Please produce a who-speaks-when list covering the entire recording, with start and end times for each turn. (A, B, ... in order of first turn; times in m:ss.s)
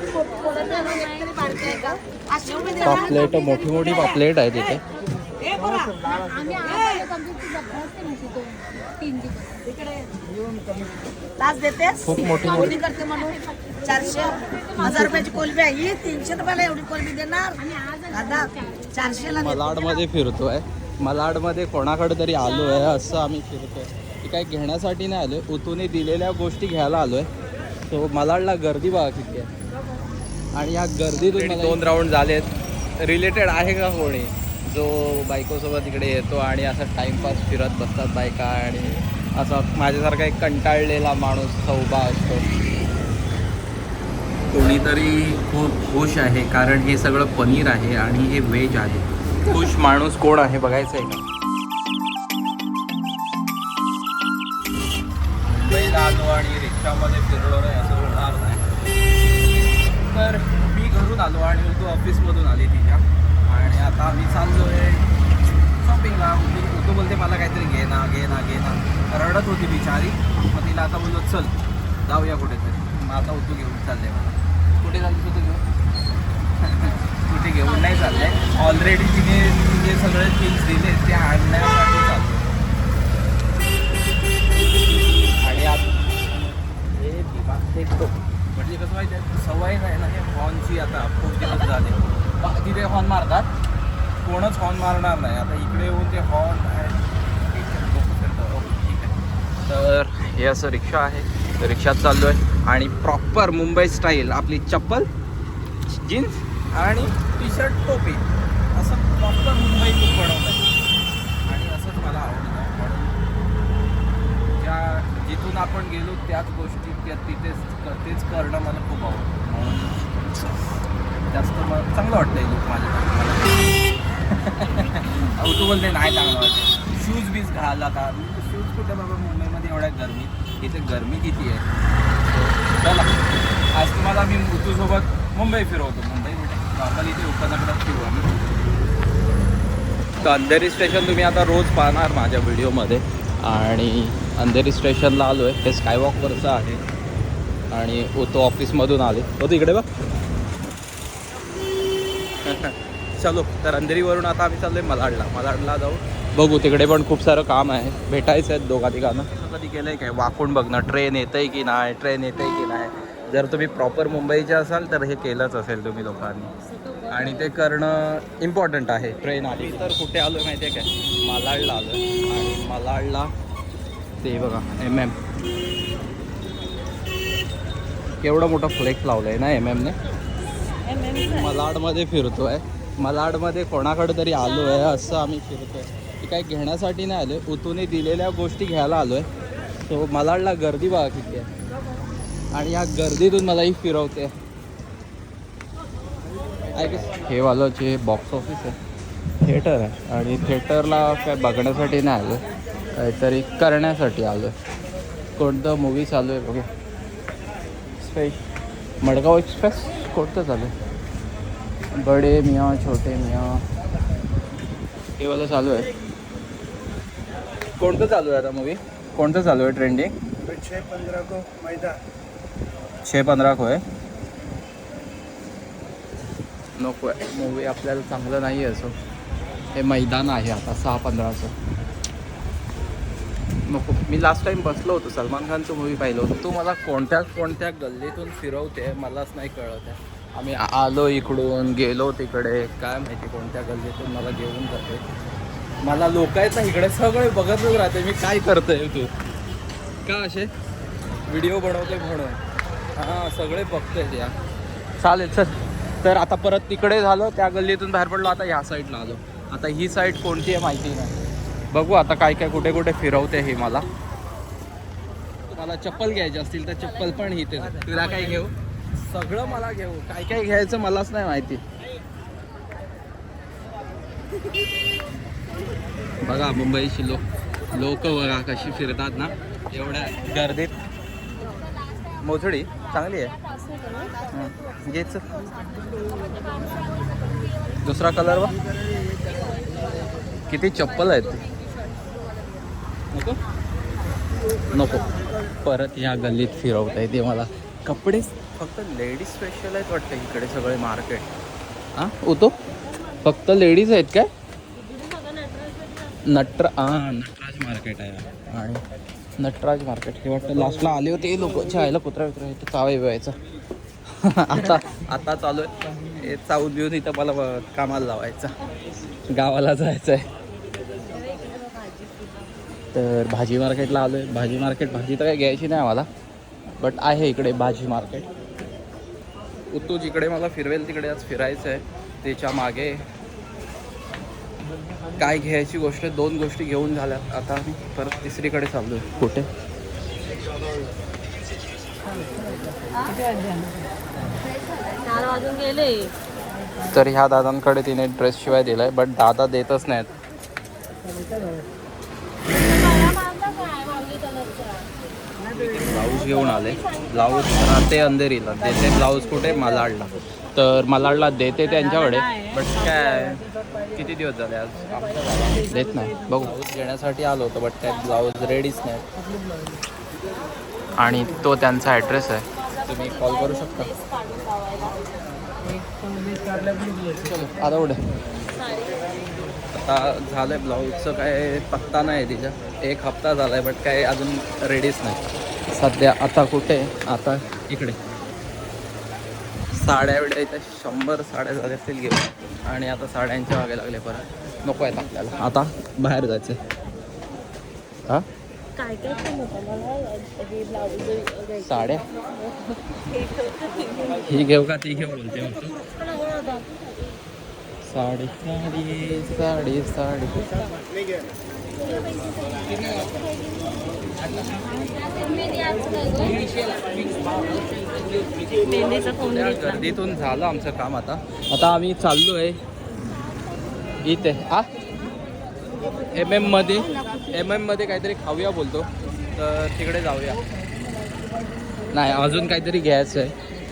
0:00.3-0:02.9 A
0:00.4-0:01.3 B
0:02.8-0:04.8 C
0:05.5-0:09.8 A
0:11.4-0:12.0 A
0:12.0-0:12.9 C
0:12.8-0:19.2 A
0:19.2-0:27.3 C
0:27.9-0:29.5 C
0:30.6-0:42.4 C
0:44.5-0:51.2 C
0:55.4-0:58.6 C
1:00.0-1:05.1 C
1:05.8-1:11.5 C
1:12.0-1:15.6 C
1:16.6-1:22.5 C
1:17.7-1:18.6 B
1:25.4-1:25.9 C
1:26.9-1:33.5 C
1:34.2-1:45.1 C
1:45.9-1:50.6 C
1:51.4-1:53.2 C
1:54.5-2:00.1 C
2:01.2-2:03.6 C
2:04.2-2:11.6 C
2:12.3-2:13.2 C
2:13.7-2:18.3 C
2:20.2-2:26.8 C
2:27.7-2:29.9 C
2:32.4-2:46.5 C
2:47.1-2:53.3 C
2:54.2-2:55.2 C
2:58.2-3:00.0 C
3:01.1-3:09.3 C
3:09.8-3:11.5 C
3:12.5-3:14.3 C
3:16.7-3:18.8 C
3:19.4-3:22.4 C
3:22.9-3:24.5 C
3:25.4-3:26.7 C
3:28.0-3:28.4 C
3:29.0-3:30.7 C
3:31.9-3:33.6 C
3:35.2-3:35.9 C
3:37.8-3:40.1 C
3:43.0-3:43.8 C
3:46.8-3:48.9 C
3:49.7-3:51.5 C
3:53.6-4:05.0 C
4:05.8-4:09.1 C
4:10.0-4:10.5 C
4:11.3-4:12.4 C
4:13.0-4:14.4 C
4:15.0-4:21.1 C
4:21.7-4:23.8 C
4:25.5-4:28.5 C
4:29.1-4:31.6 C
4:36.2-4:40.7 C
4:42.2-4:43.3 C
4:43.7-4:44.1 B
4:44.3-4:45.2 C
4:47.8-4:48.5 C
4:50.5-4:51.4 C
4:53.1-4:53.4 C
4:54.7-4:55.1 C
4:55.6-5:01.3 C
5:01.9-5:02.5 C
5:03.2-5:04.3 C
5:04.9-5:06.0 B
5:06.2-5:08.8 C
5:09.4-5:13.3 C
5:14.2-5:18.5 C
5:19.2-5:20.3 C
5:21.1-5:22.3 B
5:22.9-5:26.1 C
5:26.8-5:28.3 C
5:29.7-5:33.0 C
5:35.2-5:39.5 C
5:44.9-5:46.1 B
5:46.9-5:50.1 C
5:52.7-5:54.8 B
5:55.5-6:09.0 C
6:11.0-6:14.0 C
6:14.0-6:15.0 B
6:17.1-6:18.0 C
6:18.6-6:19.1 B
6:19.7-6:28.0 C
6:29.7-6:36.6 C
6:38.8-6:41.6 B
6:41.6-6:42.0 C
6:42.9-6:44.2 B
6:44.2-6:45.8 C
6:47.8-6:50.5 C
6:52.7-6:53.0 C
6:55.2-6:56.7 B
6:58.4-6:59.4 B
6:58.9-7:02.6 C
7:04.0-7:04.7 C
7:06.1-7:10.4 C
7:11.9-7:13.3 C